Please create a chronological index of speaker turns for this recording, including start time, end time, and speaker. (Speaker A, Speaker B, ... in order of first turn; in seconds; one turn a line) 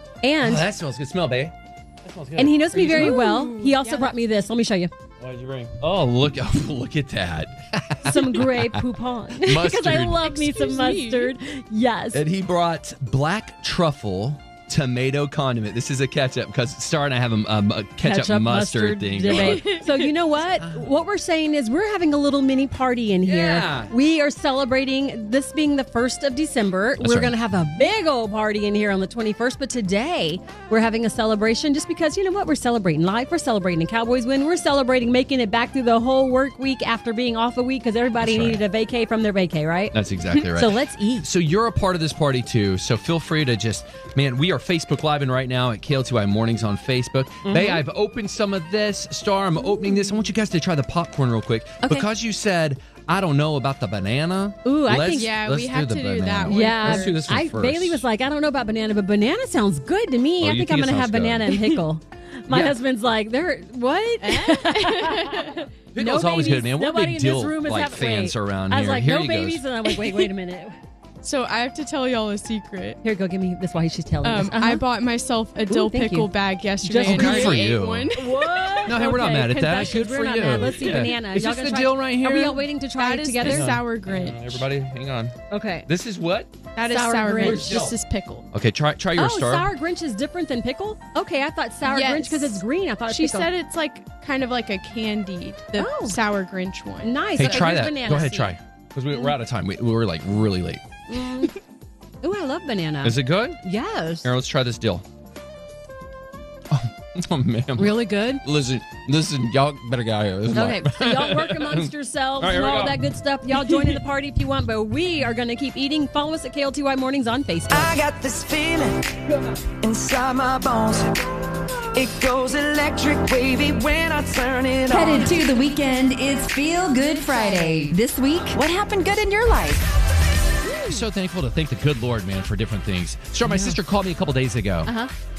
Speaker A: 0.2-0.7
Speaker B: 0.4-3.2
Speaker A: 2.4-4.9
Speaker C: 2.7-4.1
Speaker B: 5.2-10.3
Speaker A: 8.0-12.2
Speaker C: 10.1-11.3
Speaker B: 12.1-19.7
Speaker A: 18.0-41.3
Speaker C: 19.3-20.1
Speaker B: 20.6-20.9
Speaker B: 23.2-23.9
Speaker B: 27.0-27.4
Speaker B: 38.2-38.6
Speaker B: 39.9-58.0
Speaker A: 47.5-47.8
Speaker A: 54.6-55.3
Speaker C: 55.1-57.3
Speaker A: 56.5-70.8
Speaker B: 60.4-61.6
Speaker B: 62.5-62.8
Speaker C: 64.2-65.7
Speaker B: 65.9-69.7
Speaker C: 71.2-73.0
Speaker A: 73.0-74.8
Speaker C: 74.2-79.0
Speaker A: 75.7-76.3
Speaker A: 76.9-83.8
Speaker B: 76.9-78.1
Speaker B: 78.8-82.7
Speaker C: 83.0-84.6
Speaker B: 83.4-85.3
Speaker A: 85.5-85.9
Speaker B: 85.9-86.6
Speaker C: 86.8-88.5
Speaker A: 86.9-87.8
Speaker B: 87.4-88.0
Speaker B: 88.5-89.7
Speaker A: 89.2-93.5
Speaker C: 91.9-97.8
Speaker A: 95.8-96.2
Speaker A: 97.0-98.5
Speaker B: 97.4-100.8
Speaker A: 101.1-101.6
Speaker A: 102.2-104.3
Speaker B: 103.0-103.6
Speaker B: 104.2-105.0
Speaker B: 106.7-114.0
Speaker A: 107.8-108.4
Speaker A: 110.5-118.0
Speaker D: 117.7-119.1
Speaker D: 119.8-121.1
Speaker D: 122.0-125.3
Speaker E: 124.9-129.8
Speaker A: 130.6-131.0
Speaker B: 130.8-134.9
Speaker A: 133.4-133.8
Speaker A: 134.8-135.1